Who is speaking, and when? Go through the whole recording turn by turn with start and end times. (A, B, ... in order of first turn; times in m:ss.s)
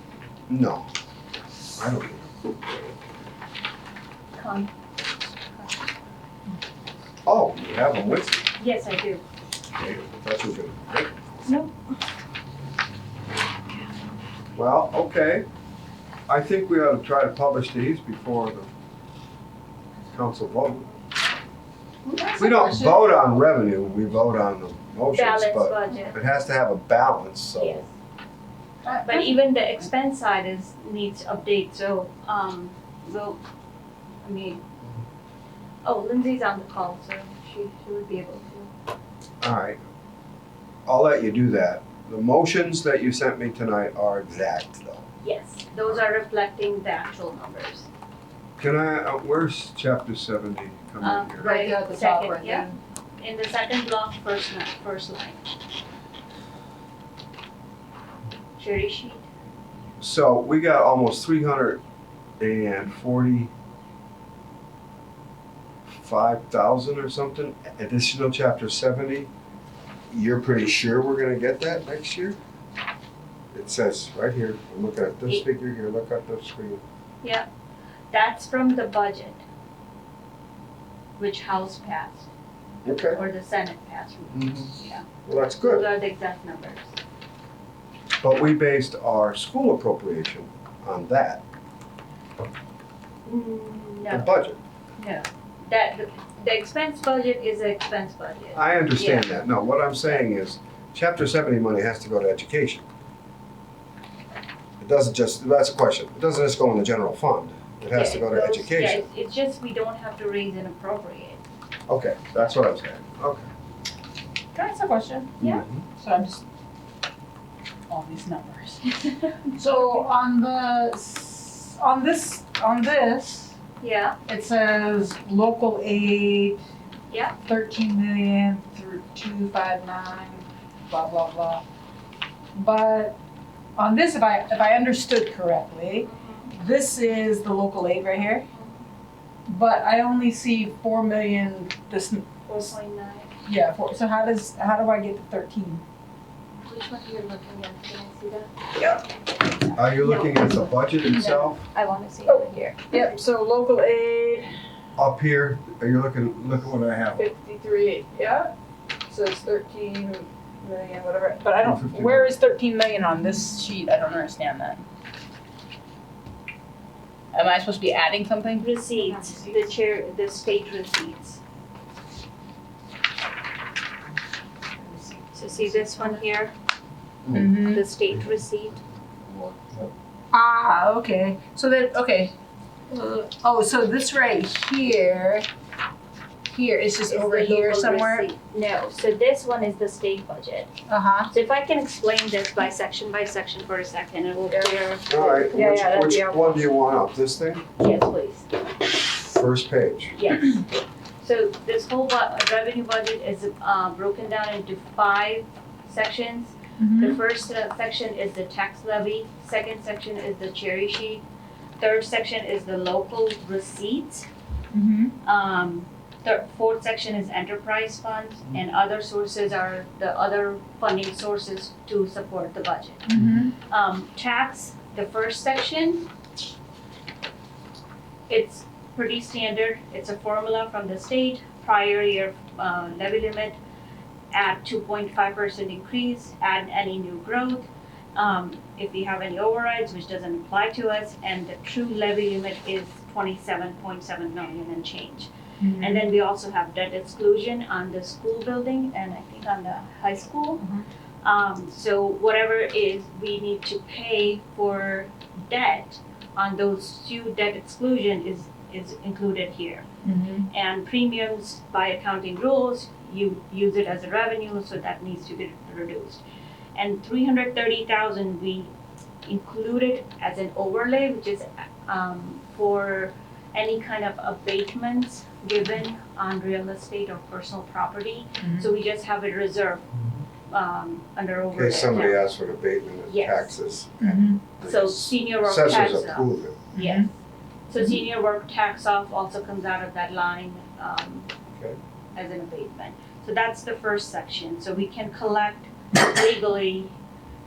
0:00.5-0:00.9 A
0:01.8-0:02.4 A
0:04.4-0:04.7 B
0:05.3-0:05.9 B
0:07.2-0:08.4 A
0:08.6-0:09.2 B
0:09.8-0:11.4 A
0:11.5-0:11.7 B
0:14.6-0:15.5 A
0:16.3-0:18.7 A
0:20.1-0:20.9 A
0:22.0-0:23.1 B
0:22.4-0:27.8 A
0:25.1-0:26.2 B
0:27.6-0:27.9 B
0:28.8-0:29.3 C
0:29.0-0:33.4 B
0:34.2-0:34.6 B
0:35.8-0:38.7 B
0:39.4-0:39.8 A
0:40.9-0:45.1 A
0:45.2-0:47.9 B
0:48.6-0:51.6 A
0:51.0-0:52.7 B
0:51.4-0:52.8 C
0:53.2-0:55.4 B
0:58.6-0:59.3 B
1:00.0-1:01.8 A
1:02.4-1:03.5 A
1:05.9-1:09.3 A
1:10.1-1:12.4 A
1:13.5-1:16.8 A
1:17.2-1:17.5 B
1:18.1-1:19.4 B
1:21.2-1:22.3 B
1:22.8-1:23.2 A
1:23.1-1:25.1 B
1:24.3-1:24.7 A
1:25.2-1:25.9 A
1:25.6-1:27.0 B
1:28.2-1:31.4 A
1:33.2-1:34.3 B
1:34.1-1:34.6 A
1:35.0-1:39.4 B
1:38.6-1:42.8 A
1:44.8-1:49.0 A
1:47.9-1:51.4 B
1:51.9-1:53.5 A
1:54.6-1:55.4 C
1:55.4-1:55.8 A
1:56.0-1:56.4 C
1:57.9-1:58.8 C
1:59.0-1:59.5 B
1:59.5-2:03.6 C
2:03.8-2:04.2 B
2:04.3-2:06.6 C
2:07.1-2:07.4 B
2:07.4-2:11.6 C
2:12.6-2:13.2 C
2:13.8-2:18.5 C
2:16.0-2:16.5 B
2:18.5-2:18.8 B
2:19.5-2:22.4 C
2:22.5-2:23.3 B
2:23.4-2:25.8 C
2:26.6-2:28.5 B
2:29.5-2:33.0 B
2:29.8-2:31.7 A
2:32.3-2:34.5 C
2:35.0-2:37.3 A
2:37.2-2:38.5 C
2:39.1-2:44.8 C
2:41.6-2:42.3 A
2:47.3-2:49.6 C
2:48.6-2:51.4 B
2:54.8-2:56.2 C
2:55.4-2:56.5 B
2:57.3-2:57.8 C
2:57.6-2:58.8 B
2:59.2-2:59.9 A
3:00.3-3:02.3 C
3:02.9-3:05.5 C
3:06.5-3:08.3 C
3:07.1-3:10.7 B
3:10.9-3:11.3 C
3:11.3-3:15.5 B
3:15.1-3:17.6 A
3:15.5-3:16.7 C
3:17.8-3:18.5 B
3:19.2-3:20.2 A
3:20.2-3:20.7 B
3:21.2-3:31.2 B
3:26.8-3:27.2 C
3:31.8-3:34.3 B
3:34.7-3:35.1 C
3:35.2-3:43.0 B
3:43.1-3:43.5 C
3:43.7-3:46.1 B
3:48.3-3:53.6 B
3:54.3-4:10.6 B
4:05.6-4:06.0 C
4:11.2-4:19.8 B
4:20.0-4:20.5 C
4:20.5-4:26.2 B
4:26.8-4:28.7 B
4:29.2-4:39.8 B
4:38.4-4:38.7 C
4:40.5-4:42.2 B
4:41.5-4:46.6 A
4:43.1-4:43.6 B
4:44.0-4:44.4 C
4:44.6-4:47.1 B
4:46.8-4:47.1 C
4:47.7-4:51.3 B
4:52.2-4:57.0 B